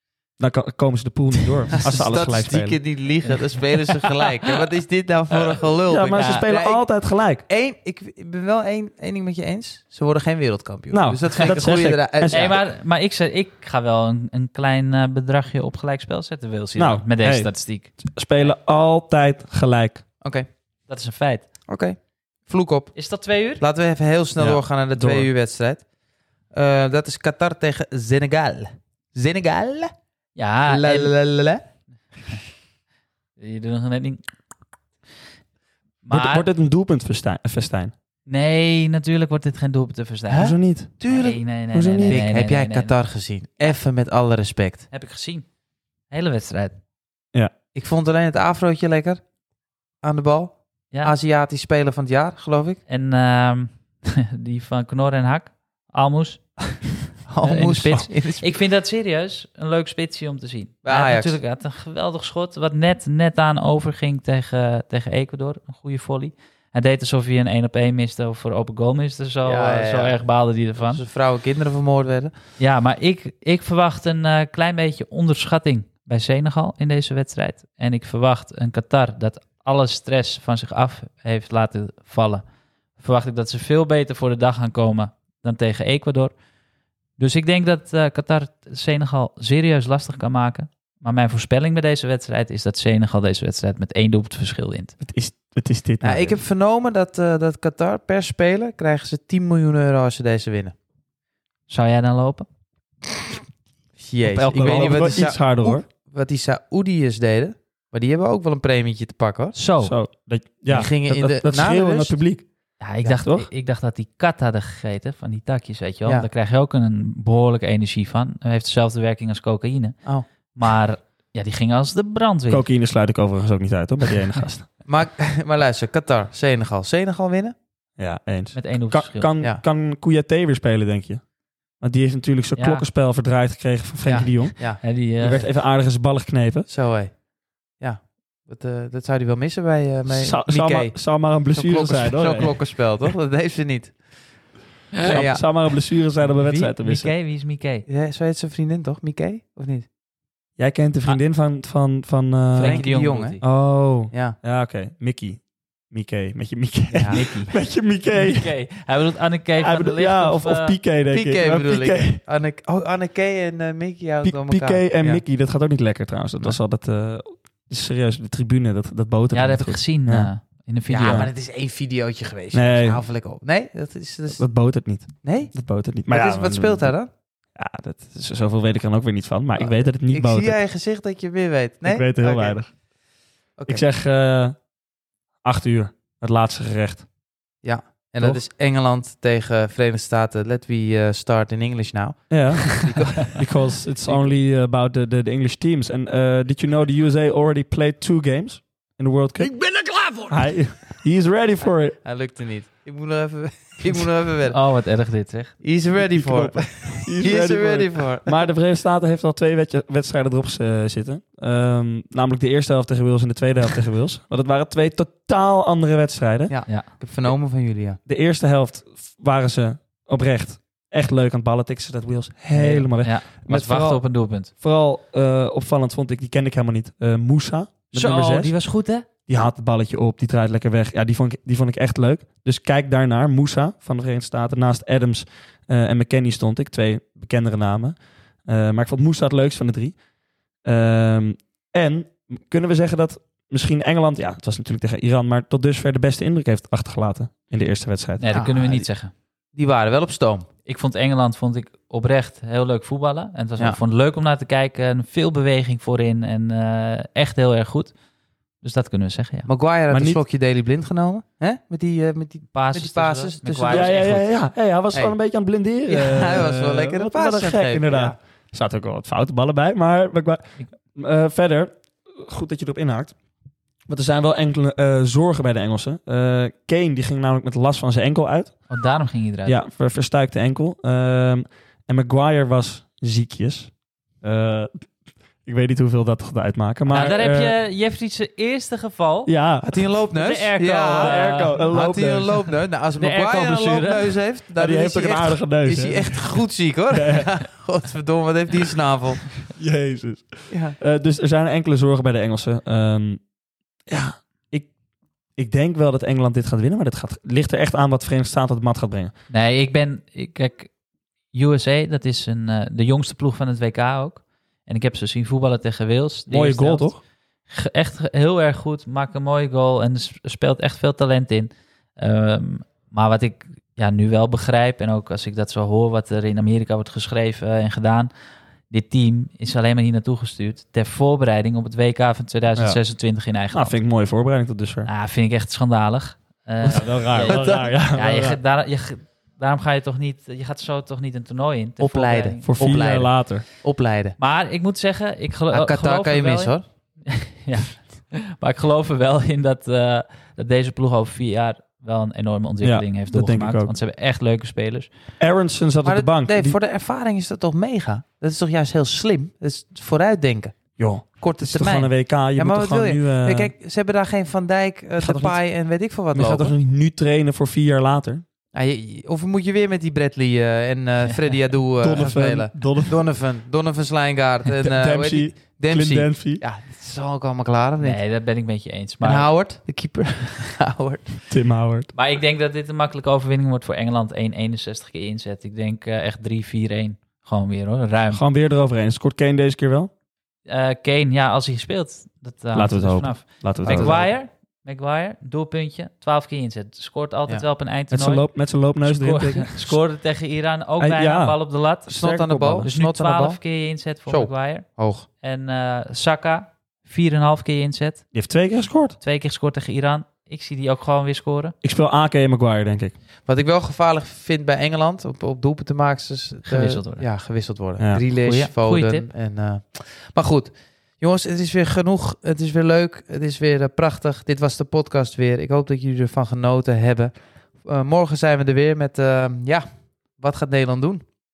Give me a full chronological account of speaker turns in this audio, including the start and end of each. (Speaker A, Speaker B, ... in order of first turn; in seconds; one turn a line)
Speaker A: 0.4-2.8
Speaker B: 1.8-6.9
Speaker C: 3.9-4.2
Speaker A: 5.9-7.4
Speaker B: 7.4-12.6
Speaker A: 10.9-12.6
Speaker C: 12.3-18.5
Speaker A: 16.8-20.0
Speaker C: 20.9-21.4
Speaker B: 21.7-23.0
Speaker C: 22.9-23.6
Speaker B: 23.6-25.8
Speaker A: 24.4-25.3
Speaker B: 26.5-29.9
Speaker C: 30.4-31.1
Speaker B: 30.7-31.6
Speaker C: 33.4-34.2
Speaker C: 36.0-36.5
Speaker A: 36.1-37.9
Speaker C: 38.3-40.5
Speaker B: 40.3-41.4
Speaker A: 40.4-41.0
Speaker C: 41.1-43.0
Speaker A: 41.7-42.2
Speaker B: 42.0-44.9
Speaker C: 44.9-45.5
Speaker C: 46.1-46.8
Speaker B: 47.7-49.2
Speaker B: 50.0-52.8
Speaker C: 52.9-71.0
Speaker B: 57.3-58.5
Speaker B: 60.9-61.4
Speaker B: 69.4-70.2
Speaker B: 70.8-72.3
Speaker C: 72.6-82.4
Speaker C: 83.0-86.3
Speaker C: 87.2-95.0
Speaker A: 95.0-96.4
Speaker B: 96.0-100.7
Speaker C: 101.7-102.5
Speaker B: 104.0-109.6
Speaker A: 104.2-105.8
Speaker C: 104.6-105.0
Speaker C: 109.5-110.0
Speaker A: 109.8-112.5
Speaker B: 110.7-112.2
Speaker C: 112.8-122.7
Speaker A: 113.0-113.5
Speaker A: 122.5-124.7
Speaker B: 124.8-127.5
Speaker A: 128.0-131.2
Speaker C: 128.5-129.3
Speaker A: 131.8-136.7
Speaker C: 132.6-132.9
Speaker C: 134.0-135.5
Speaker B: 136.7-137.2
Speaker B: 137.8-144.0
Speaker A: 140.1-142.6
Speaker A: 145.0-147.1
Speaker B: 145.0-145.5
Speaker C: 146.2-147.9
Speaker B: 147.9-149.9
Speaker A: 150.6-152.9
Speaker C: 152.5-153.4
Speaker B: 152.6-153.4
Speaker A: 153.4-158.5
Speaker B: 154.1-154.4
Speaker C: 156.9-157.6
Speaker C: 158.1-160.8
Speaker A: 159.6-162.2
Speaker B: 161.1-165.2
Speaker A: 164.2-170.3
Speaker C: 169.3-171.3
Speaker B: 170.9-174.4
Speaker A: 172.5-173.0
Speaker A: 174.3-176.9
Speaker B: 175.2-175.5
Speaker B: 176.1-177.1
Speaker A: 177.6-180.6
Speaker B: 179.6-182.6
Speaker A: 181.8-182.7
Speaker B: 183.6-183.8
Speaker A: 183.7-184.6
Speaker A: 185.4-187.1
Speaker B: 187.6-193.5
Speaker A: 192.3-202.0
Speaker B: 194.1-194.4
Speaker B: 202.0-204.6
Speaker C: 204.5-205.6
Speaker B: 205.6-208.4
Speaker A: 205.9-216.6
Speaker B: 216.5-218.0
Speaker A: 218.1-228.6
Speaker C: 222.5-224.5
Speaker C: 227.9-229.1
Speaker A: 229.3-240.0
Speaker A: 240.6-248.3
Speaker C: 248.2-249.1
Speaker B: 248.3-248.9
Speaker B: 249.6-250.5
Speaker C: 250.7-257.9
Speaker C: 258.6-259.5
Speaker B: 259.5-264.2
Speaker A: 259.9-260.2
Speaker C: 262.5-264.3
Speaker A: 263.6-273.1
Speaker B: 265.9-268.2
Speaker A: 273.9-278.6
Speaker C: 278.7-279.6
Speaker A: 279.5-284.9
Speaker A: 285.4-287.6
Speaker C: 286.9-289.3
Speaker A: 289.3-289.8
Speaker B: 289.6-299.3
Speaker C: 290.1-291.9
Speaker A: 290.9-292.3
Speaker C: 292.9-294.2
Speaker A: 294.6-296.4
Speaker A: 296.9-297.3
Speaker A: 299.6-303.2
Speaker B: 300.5-300.8
Speaker A: 303.9-304.7
Speaker A: 305.4-309.1
Speaker C: 309.3-310.7
Speaker C: 311.3-328.1
Speaker A: 316.3-317.0
Speaker C: 328.7-333.8
Speaker A: 333.5-334.9
Speaker C: 334.9-342.9
Speaker A: 336.6-338.4
Speaker B: 337.2-337.7
Speaker B: 341.8-344.2
Speaker A: 342.4-343.4
Speaker C: 344.2-354.9
Speaker B: 345.5-346.6
Speaker A: 352.6-353.7
Speaker A: 355.2-356.6
Speaker B: 355.8-360.6
Speaker A: 360.8-363.5
Speaker B: 361.2-366.5
Speaker A: 365.0-365.4
Speaker A: 366.1-368.2
Speaker B: 368.5-378.0
Speaker A: 371.8-373.0
Speaker A: 374.5-376.4
Speaker C: 377.8-379.3
Speaker B: 379.0-381.2
Speaker A: 381.3-381.9
Speaker C: 381.9-388.2
Speaker A: 388.1-389.9
Speaker C: 390.5-398.3
Speaker A: 392.5-394.1
Speaker B: 393.7-394.1
Speaker A: 397.9-399.8
Speaker C: 398.8-401.9
Speaker A: 400.8-402.7
Speaker B: 401.9-403.4
Speaker C: 402.6-404.7
Speaker B: 404.1-405.1
Speaker C: 405.2-408.1
Speaker A: 408.1-409.0
Speaker C: 409.0-411.5
Speaker A: 411.6-412.9
Speaker B: 413.3-431.0
Speaker C: 416.5-417.1
Speaker C: 418.1-419.1